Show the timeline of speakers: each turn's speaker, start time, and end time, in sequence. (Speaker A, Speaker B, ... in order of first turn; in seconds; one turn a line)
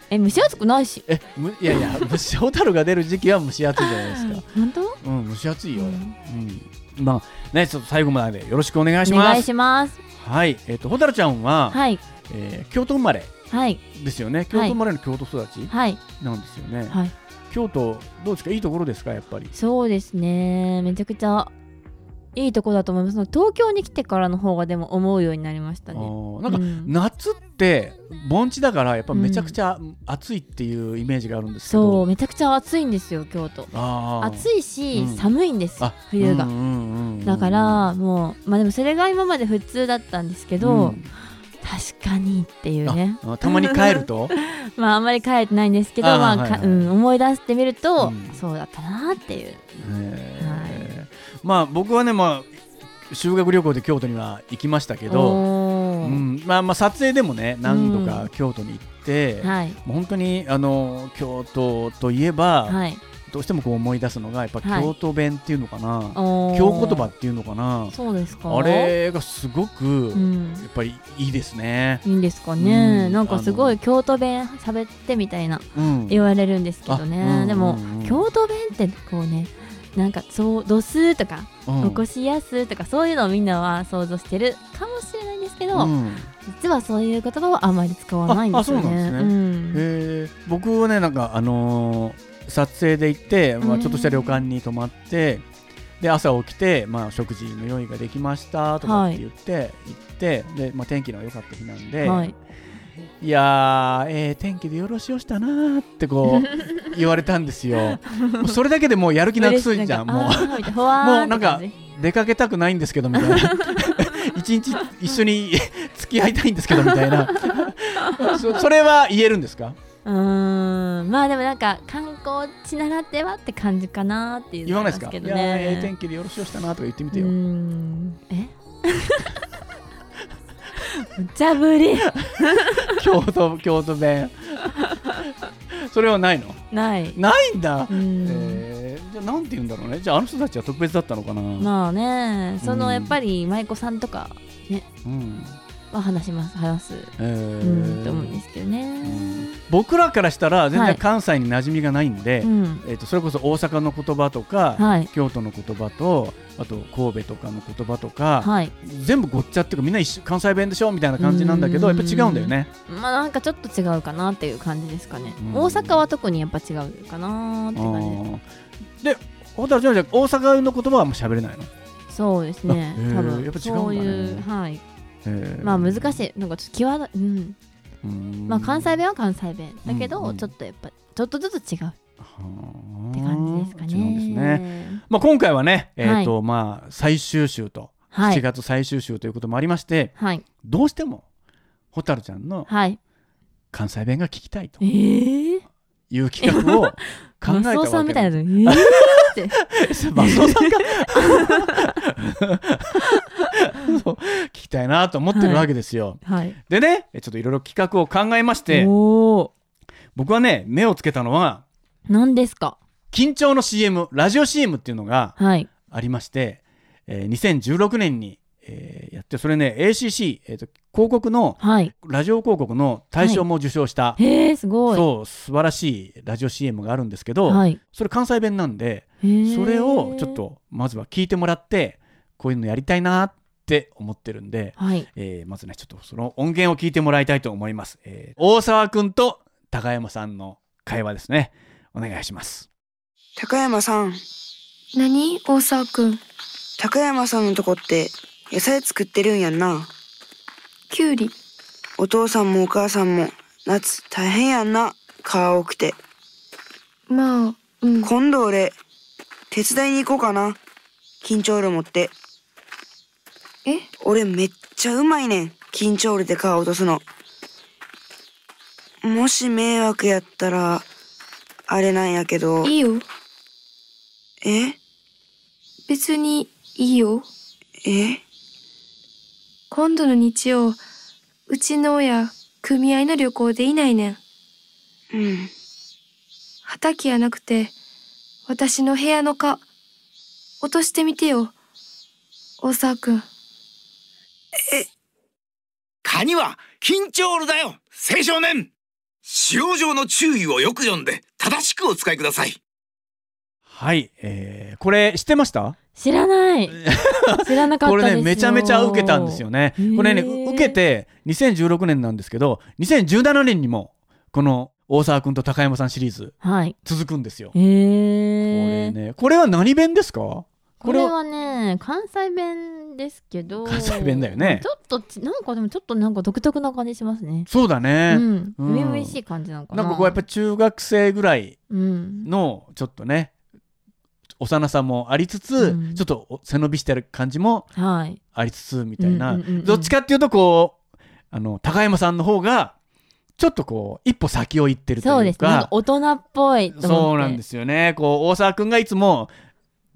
Speaker A: 0.1-1.0
Speaker B: 0.3-4.5
Speaker A: 1.7-2.1
Speaker A: 3.8-5.0
Speaker B: 5.0-9.5
Speaker A: 5.8-6.2
Speaker A: 9.0-10.0
Speaker B: 10.2-13.3
Speaker A: 11.7-12.0
Speaker A: 13.5-13.8
Speaker B: 13.9-17.0
Speaker A: 14.5-14.8
Speaker A: 15.7-16.1
Speaker B: 17.5-19.5
Speaker A: 19.5-21.5
Speaker A: 22.4-26.9
Speaker B: 25.9-32.1
Speaker A: 29.1-29.6
Speaker A: 31.7-36.5
Speaker B: 33.7-37.9
Speaker A: 37.2-41.0
Speaker B: 40.6-41.1
Speaker A: 41.6-49.6
Speaker B: 42.9-44.4
Speaker B: 46.0-46.9
Speaker B: 48.0-48.4
Speaker B: 49.8-52.6
Speaker A: 50.4-50.9
Speaker B: 53.1-55.4
Speaker A: 55.1-56.2
Speaker B: 56.0-72.0
Speaker A: 57.6-58.3
Speaker A: 59.4-59.8
Speaker A: 62.7-63.0
Speaker A: 64.6-64.9
Speaker A: 66.2-67.1
Speaker A: 67.9-69.0
Speaker A: 70.1-70.7
Speaker A: 72.0-85.9
Speaker B: 72.6-73.8
Speaker B: 75.8-76.2
Speaker B: 76.9-78.2
Speaker B: 81.7-82.0
Speaker B: 85.7-86.3
Speaker A: 86.5-89.8
Speaker B: 88.3-95.5
Speaker A: 93.6-94.4
Speaker B: 96.0-102.3
Speaker A: 98.8-99.2
Speaker A: 102.0-102.3
Speaker B: 103.2-119.8
Speaker A: 108.2-108.5
Speaker A: 109.4-111.7
Speaker A: 113.2-113.8
Speaker A: 118.1-118.4
Speaker A: 120.0-125.9
Speaker B: 124.7-127.3
Speaker A: 127.1-129.3
Speaker A: 130.8-133.0
Speaker B: 132.8-134.6
Speaker B: 135.7-136.6
Speaker A: 136.7-137.2
Speaker B: 137.2-141.7
Speaker A: 137.9-138.6
Speaker A: 141.6-144.9
Speaker B: 142.6-143.2
Speaker B: 145.1-145.6
Speaker A: 145.9-149.5
Speaker B: 147.2-148.4
Speaker B: 149.0-162.7
Speaker A: 150.7-151.0
Speaker A: 152.4-152.8
Speaker A: 154.8-155.1
Speaker A: 158.4-158.7
Speaker A: 161.2-168.2
Speaker B: 165.4-166.1
Speaker B: 167.8-168.4
Speaker B: 169.0-171.7
Speaker A: 172.1-174.8
Speaker B: 172.7-174.4
Speaker B: 175.2-176.2
Speaker A: 175.6-177.6
Speaker B: 178.0-179.0
Speaker A: 178.5-182.0
Speaker B: 179.9-180.5
Speaker B: 182.2-191.2
Speaker A: 183.1-185.0
Speaker A: 186.0-186.3
Speaker A: 188.1-188.4
Speaker A: 190.2-190.4
Speaker B: 191.9-192.7
Speaker A: 192.7-193.0
Speaker B: 193.7-194.8
Speaker A: 194.8-195.6
Speaker B: 196.1-203.1
Speaker A: 196.4-199.6
Speaker A: 200.2-201.9
Speaker B: 203.6-208.9
Speaker A: 205.3-205.7
Speaker A: 206.2-206.6
Speaker A: 208.7-209.5
Speaker B: 210.2-211.7
Speaker A: 212.1-212.8
Speaker B: 213.1-224.2
Speaker A: 215.4-215.7
Speaker A: 221.6-221.9
Speaker A: 224.2-225.1
Speaker B: 224.9-242.7
Speaker A: 227.5-227.8
Speaker A: 229.2-230.4
Speaker A: 234.8-235.1
Speaker C: 243.4-244.2
Speaker D: 244.9-246.2
Speaker C: 246.8-249.9
Speaker D: 250.9-251.3
Speaker C: 252.0-256.0
Speaker D: 257.1-258.1
Speaker C: 258.0-258.8
Speaker C: 259.5-260.6
Speaker C: 261.2-262.1
Speaker C: 264.0-267.0
Speaker C: 269.0-270.9
Speaker C: 271.7-272.7
Speaker D: 272.6-273.0
Speaker C: 274.4-274.8
Speaker D: 275.9-277.3
Speaker C: 277.8-278.2
Speaker D: 279.7-280.8
Speaker D: 281.5-284.2
Speaker C: 285.1-285.5
Speaker D: 286.6-287.7
Speaker D: 288.5-289.6
Speaker D: 290.6-291.6
Speaker D: 292.6-293.3
Speaker E: 296.0-298.7
Speaker E: 299.3-302.6
Speaker B: 303.7-305.8
Speaker A: 306.0-306.8
Speaker B: 306.7-317.6
Speaker A: 307.4-310.8
Speaker A: 316.4-316.8
Speaker A: 317.5-318.9
Speaker B: 318.5-321.1
Speaker A: 320.8-327.5
Speaker B: 323.7-324.7
Speaker B: 327.5-329.2
Speaker A: 328.1-330.2
Speaker B: 329.7-331.6
Speaker A: 331.7-332.3
Speaker B: 332.2-333.3
Speaker B: 334.4-337.7
Speaker A: 335.6-336.0
Speaker A: 337.8-338.2
Speaker B: 338.3-340.8
Speaker A: 339.0-339.9
Speaker B: 341.3-342.8
Speaker B: 343.4-345.7
Speaker A: 345.0-347.4
Speaker B: 346.8-349.3